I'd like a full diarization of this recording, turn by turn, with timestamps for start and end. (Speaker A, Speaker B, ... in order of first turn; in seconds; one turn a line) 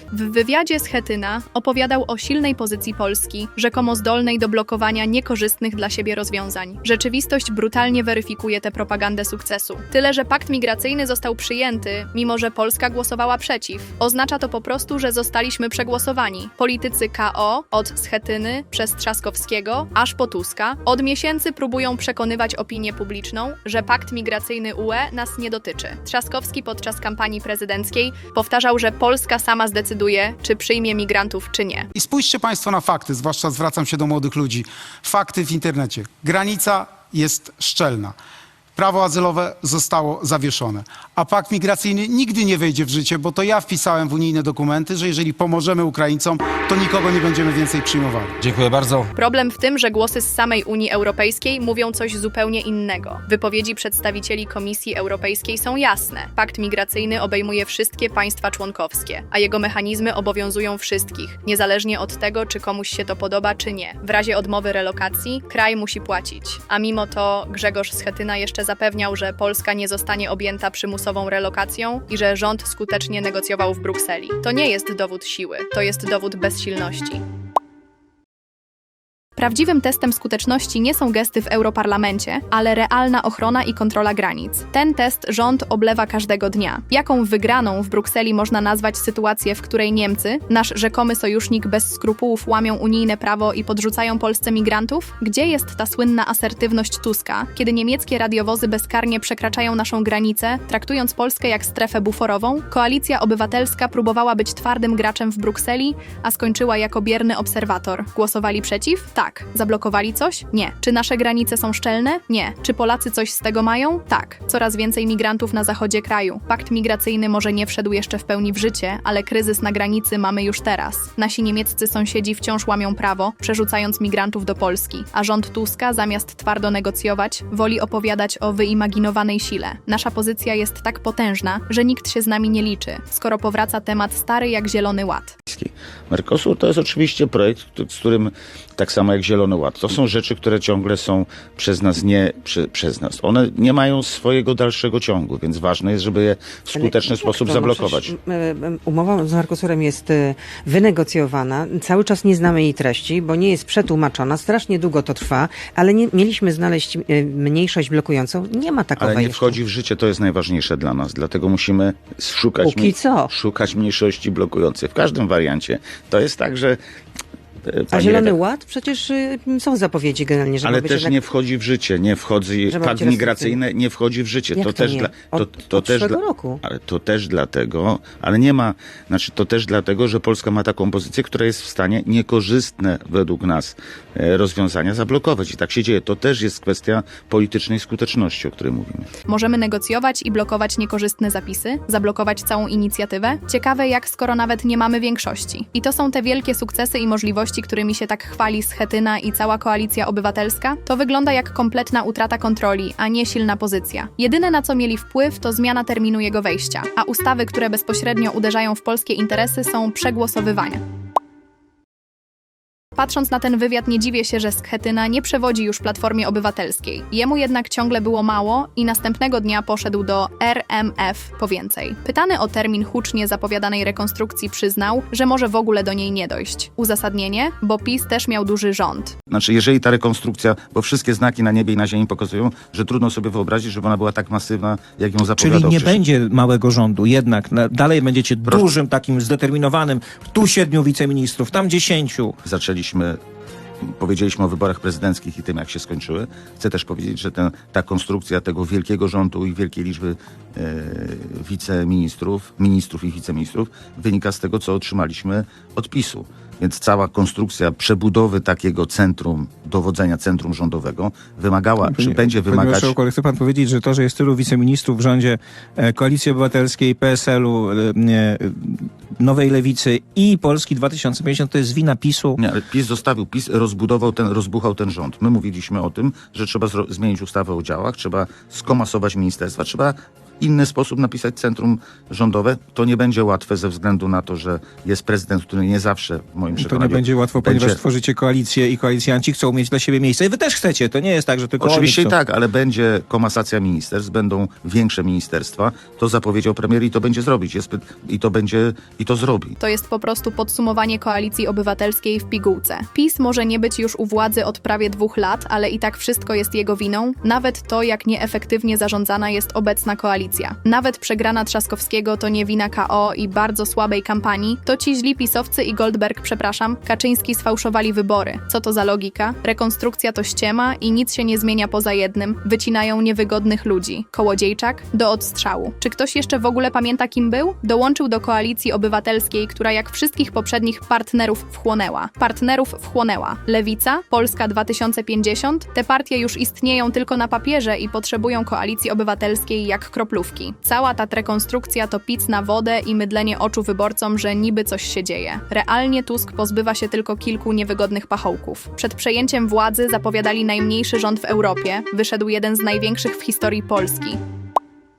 Speaker A: 0.1-31.9
Speaker B: 31.9-38.2
Speaker B: 38.8-49.0
Speaker A: 49.1-77.2
Speaker A: 79.4-135.4
Speaker C: 135.5-148.2
Speaker D: 146.7-159.6
Speaker C: 159.0-166.8
Speaker D: 162.6-163.3
Speaker C: 167.7-168.4
Speaker D: 167.9-171.2
Speaker C: 170.6-189.1
Speaker D: 172.7-173.6
Speaker D: 174.5-176.6
Speaker A: 189.3-210.8
Speaker A: 213.0-229.2
Speaker C: 229.3-236.0
Speaker E: 235.2-242.3
Speaker C: 238.4-238.7
Speaker C: 242.4-243.2
Speaker C: 244.0-263.0
Speaker E: 261.8-272.4
Speaker C: 272.4-287.8
Speaker E: 286.5-292.2
Speaker C: 291.6-299.6
Speaker A: 299.6-354.2